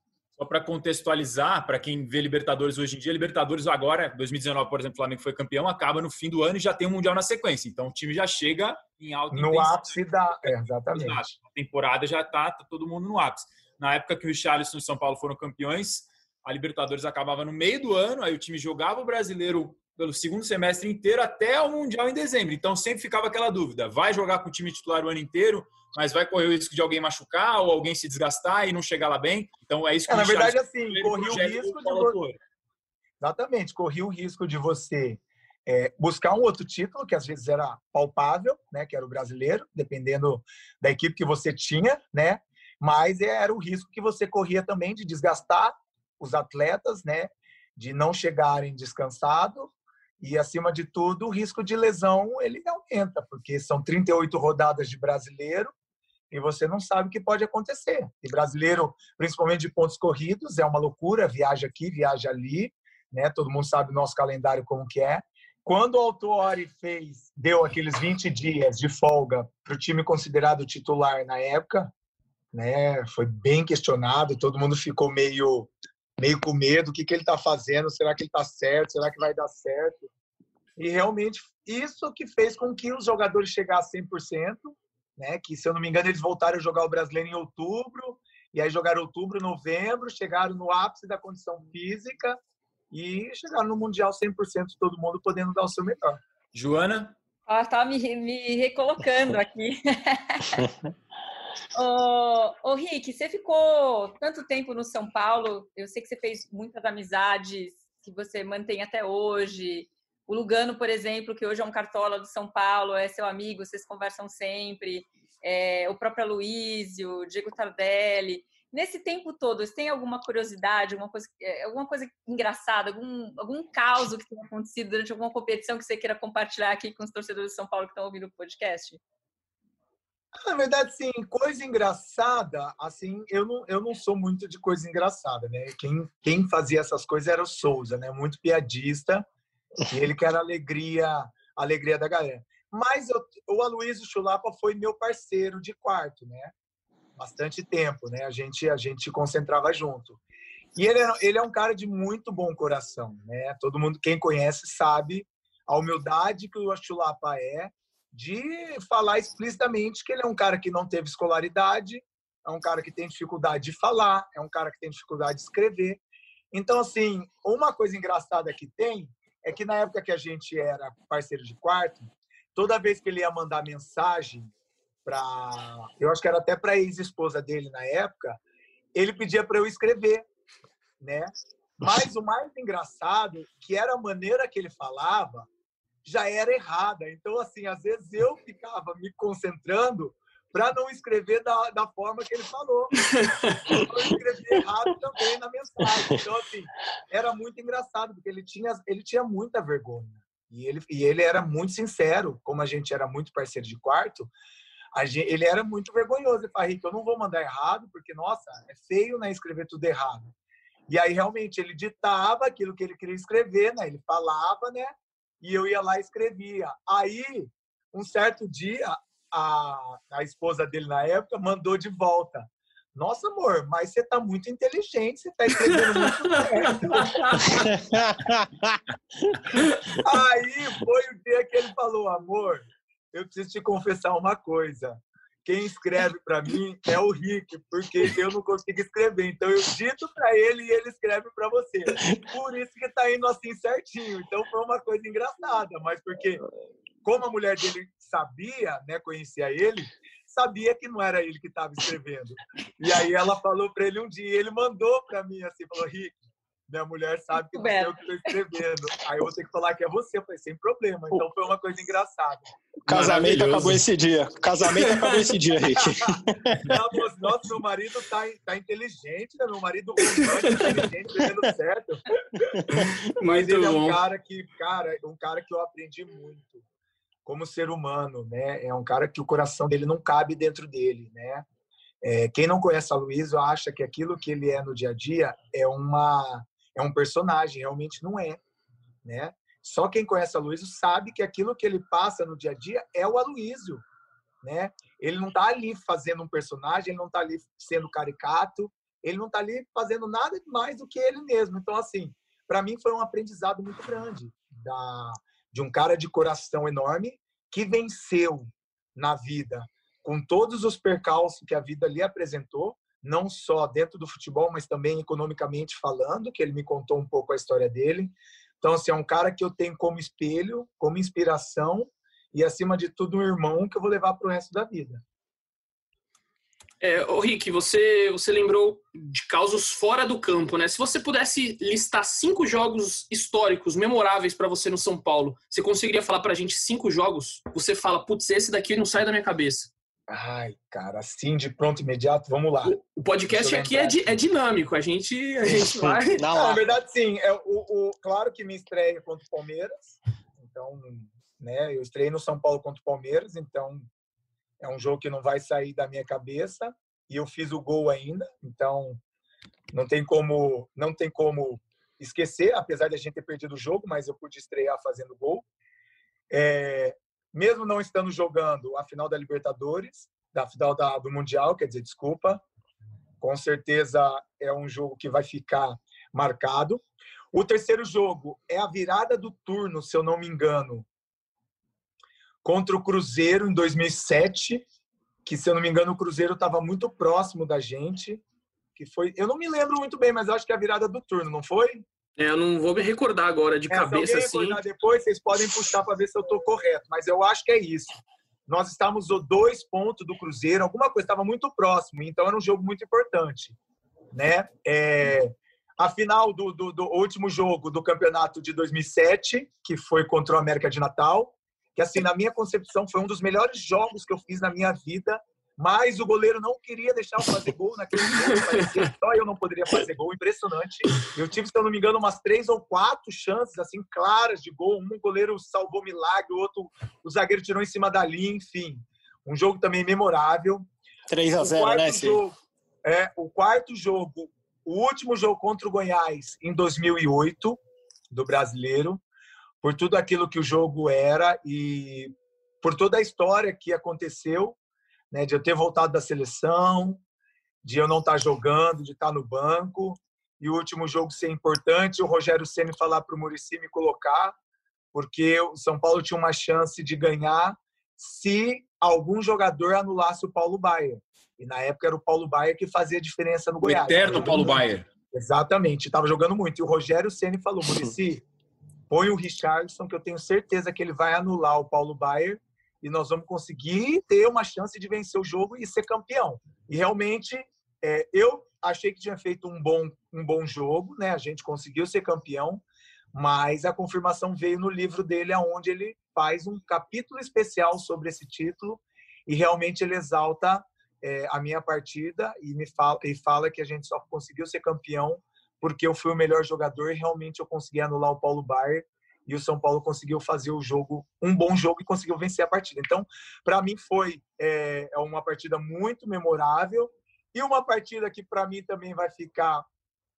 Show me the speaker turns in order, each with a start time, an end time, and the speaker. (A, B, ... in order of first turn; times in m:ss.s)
0:00.4-0:32.4 A
0:09.3-0:11.3 B
0:30.1-0:32.2 B
0:33.2-0:55.7 B
0:56.3-1:11.9 B
1:12.5-1:20.1 B
1:20.8-1:32.4 B
1:32.9-1:36.2 B
1:36.5-1:37.2 A
1:37.5-1:40.6 C
1:41.8-2:09.0 C
2:10.4-2:19.3 B
2:19.9-2:26.5 B
2:27.2-2:30.2 B
2:30.8-2:46.0 B
2:46.5-2:54.5 B
2:55.0-2:58.4 B
2:59.0-3:00.3 B
3:01.0-3:05.5 B
3:06.0-3:13.0 B
3:13.0-3:13.6 D
3:13.7-3:24.3 B
3:24.9-3:30.3 B
3:30.9-3:47.6 B
3:45.5-3:47.7 D
3:47.6-3:48.8 E
3:49.9-4:06.4 B
4:07.0-4:16.2 B
4:16.7-4:22.4 B
4:17.4-4:18.4 C
4:22.9-4:26.7 E
4:22.9-4:23.8 A
4:24.7-4:25.4 D
4:25.8-4:32.0 B
4:30.2-4:30.8 D
4:32.7-4:34.0 D
4:33.2-4:36.6 B
4:37.2-4:41.5 B
4:42.0-4:48.4 B
4:49.0-4:53.8 B
4:54.4-5:25.0 B
5:26.8-5:39.7 D
5:40.1-5:42.8 B
5:42.6-5:46.3 D
5:43.3-5:44.2 B
5:45.4-5:53.9 B
5:46.1-5:46.7 E
5:54.6-5:59.0 B
5:59.7-6:05.4 B
6:06.3-6:12.4 B
6:13.2-6:20.9 B
6:22.4-6:24.6 B
6:25.2-6:28.2 B
6:28.8-6:31.8 B
6:32.2-6:34.6 D
6:33.7-6:43.6 B
6:44.1-7:10.7 B
6:58.3-6:58.7 D
7:11.1-7:12.2 E
7:11.4-7:17.6 B
7:18.1-7:19.0 B
7:19.6-7:24.6 B
7:25.1-7:27.0 B
7:27.6-7:34.4 B
7:34.9-7:48.2 B
7:43.6-7:44.9 A
7:48.9-8:29.7 B